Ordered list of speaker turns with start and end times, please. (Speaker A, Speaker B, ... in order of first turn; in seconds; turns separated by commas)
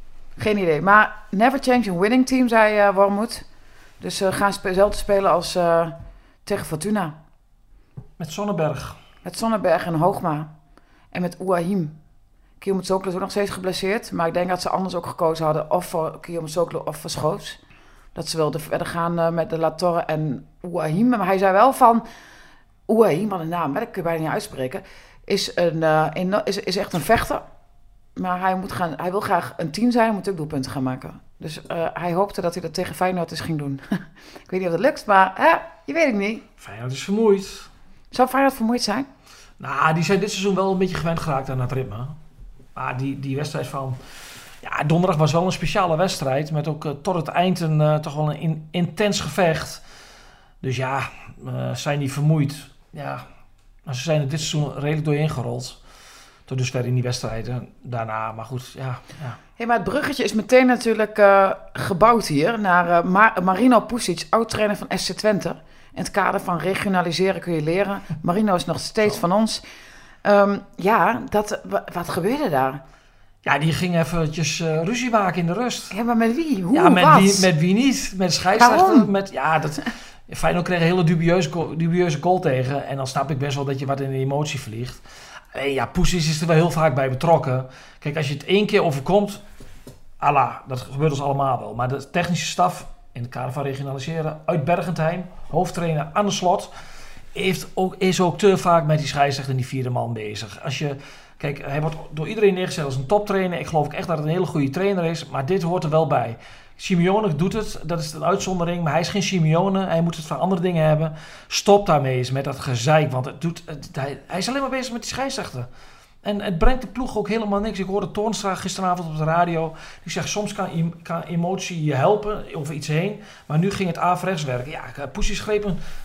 Speaker A: 0.4-3.5, Speaker A: 4.0-5.9, Speaker A: 6.5-7.2, Speaker B: 8.2-9.0, Speaker A: 9.2-10.5, Speaker A: 11.1-11.9, Speaker A: 12.6-17.6, Speaker A: 18.1-22.0, Speaker A: 22.9-27.4, Speaker A: 28.2-36.5, Speaker B: 36.6-37.7, Speaker A: 38.1-39.1, Speaker B: 39.6-42.2, Speaker B: 42.8-44.0, Speaker B: 44.6-49.8, Speaker B: 50.6-53.2, Speaker B: 53.9-55.8, Speaker B: 56.5-59.4, Speaker A: 59.6-69.6, Speaker A: 70.2-72.8, Speaker B: 73.4-75.9, Speaker A: 75.9-77.5, Speaker B: 76.7-89.4, Speaker A: 78.5-79.1, Speaker B: 90.2-96.7, Speaker B: 97.3-115.7, Speaker B: 116.2-125.8